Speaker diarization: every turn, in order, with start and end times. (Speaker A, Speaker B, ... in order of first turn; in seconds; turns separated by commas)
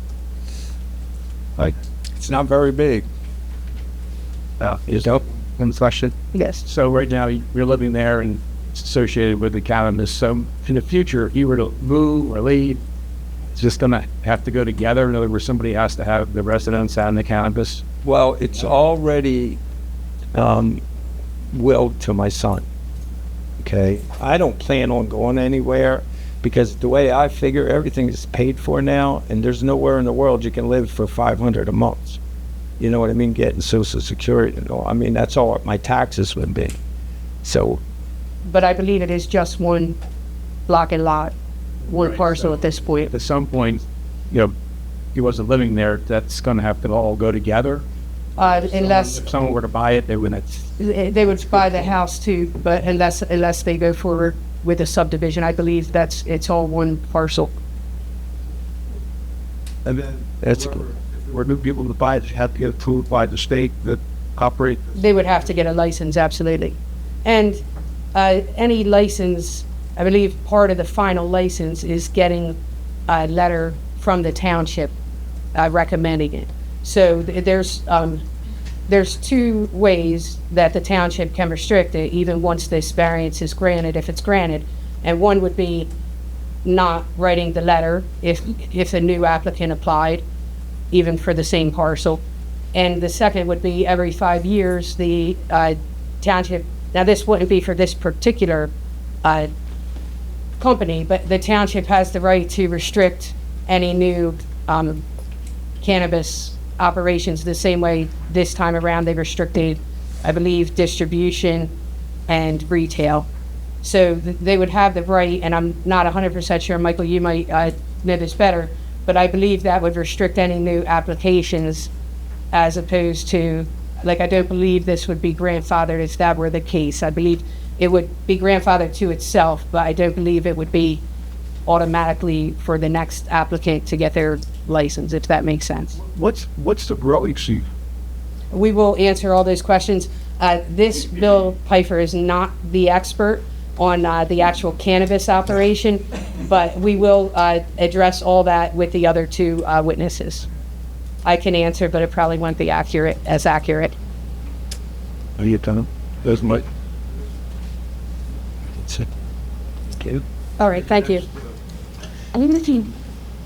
Speaker A: 2.2-3.1, Speaker B: 4.6-6.1, Speaker C: 6.3-6.6, Speaker D: 6.6-12.8, Speaker D: 13.6-17.8, Speaker A: 18.0-19.6, Speaker A: 20.3-20.8, Speaker A: 21.5-22.7, Speaker A: 23.6-32.2, Speaker A: 32.8-36.8, Speaker A: 37.4-37.8, Speaker C: 38.5-40.0, Speaker C: 40.7-41.3, Speaker C: 41.9-43.1, Speaker D: 41.9-42.5, Speaker D: 43.1-44.5, Speaker D: 45.1-47.9, Speaker C: 48.4-49.3, Speaker D: 48.7-50.6, Speaker C: 50.8-57.6, Speaker B: 59.9-65.0, Speaker A: 60.5-60.8, Speaker C: 65.0-67.6, Speaker C: 68.1-72.6, Speaker C: 73.1-75.0, Speaker C: 75.5-78.2, Speaker C: 78.9-85.9, Speaker C: 86.6-90.2, Speaker C: 90.9-92.2, Speaker C: 92.7-98.7, Speaker C: 99.2-99.5, Speaker C: 100.6-105.0, Speaker C: 105.8-111.7, Speaker C: 112.3-113.3, Speaker C: 113.8-121.9, Speaker C: 122.5-131.0, Speaker C: 131.7-136.0, Speaker B: 136.0-137.7, Speaker C: 138.5-150.5, Speaker C: 151.2-154.0, Speaker B: 155.4-156.7, Speaker A: 158.8-159.1, Speaker C: 160.6-161.3, Speaker C: 162.3-162.9